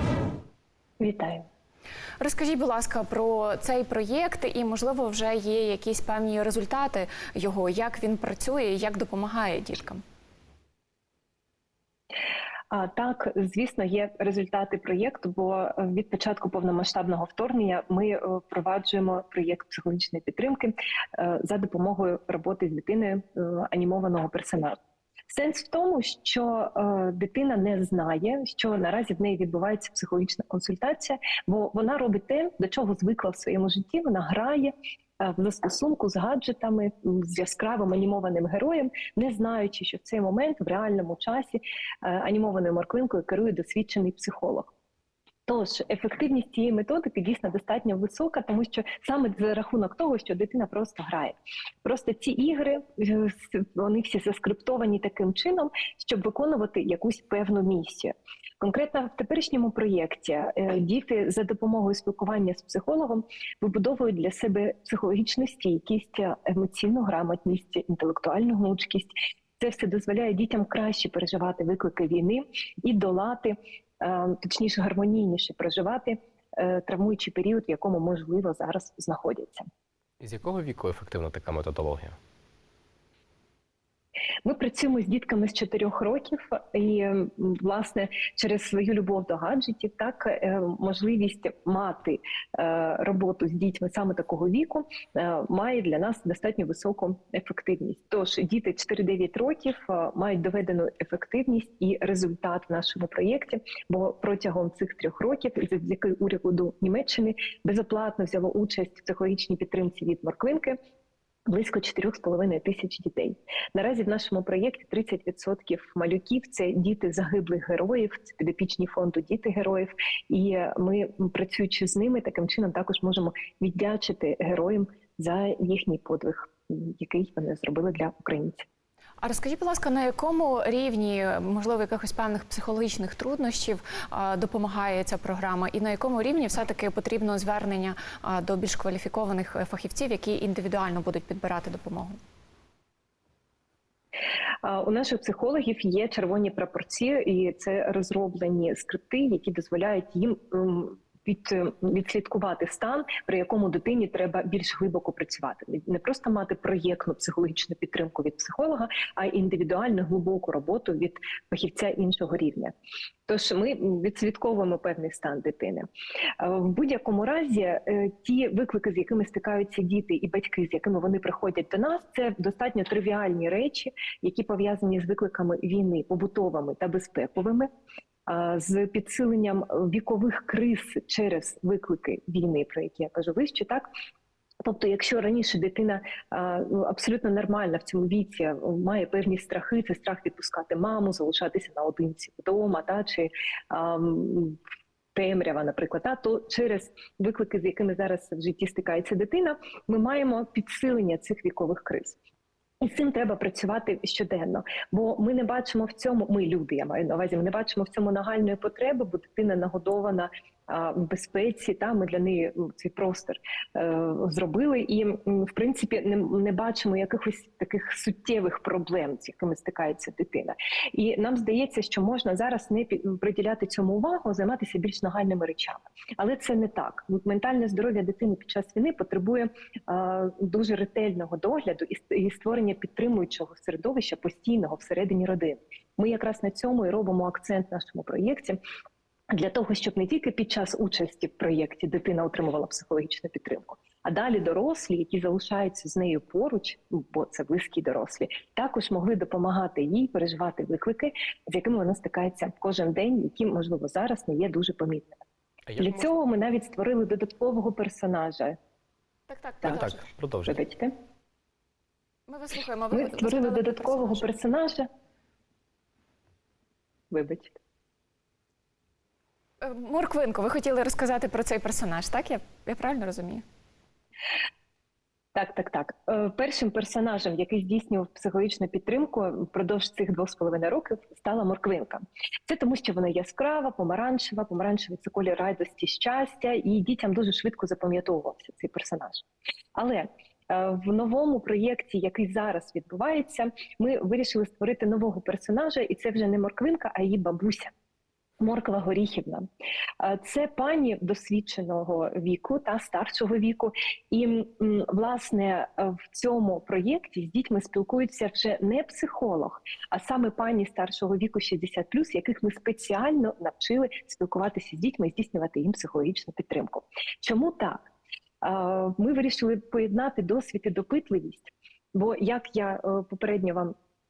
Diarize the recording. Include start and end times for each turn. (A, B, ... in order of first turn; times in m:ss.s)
0:01.0-0:01.4 A
0:02.2-0:10.0 B
0:12.7-0:24.8 A
0:25.3-0:44.7 A
0:45.5-1:19.6 A
1:20.2-1:22.2 C
1:24.4-1:50.8 A
1:51.5-2:08.6 A
2:09.2-2:22.2 B
2:24.6-2:42.7 A
2:43.3-2:45.9 A
2:46.4-2:57.7 A
2:58.3-3:03.9 A
3:04.6-3:14.6 A
3:15.1-3:22.2 A
3:22.8-3:58.6 A
3:59.3-4:15.2 A
4:15.7-4:16.1 C
4:15.8-4:18.6 A
4:19.3-4:20.0 B
4:19.6-4:19.9 A
4:19.6-4:20.6 C
4:20.4-4:20.9 A
4:22.3-4:24.3 B
4:22.9-4:24.9 A
4:27.1-4:27.6 A
4:29.6-4:33.4 B
4:35.3-4:57.7 A
4:58.4-4:59.4 A
5:00.0-5:17.8 A
5:18.4-5:23.7 A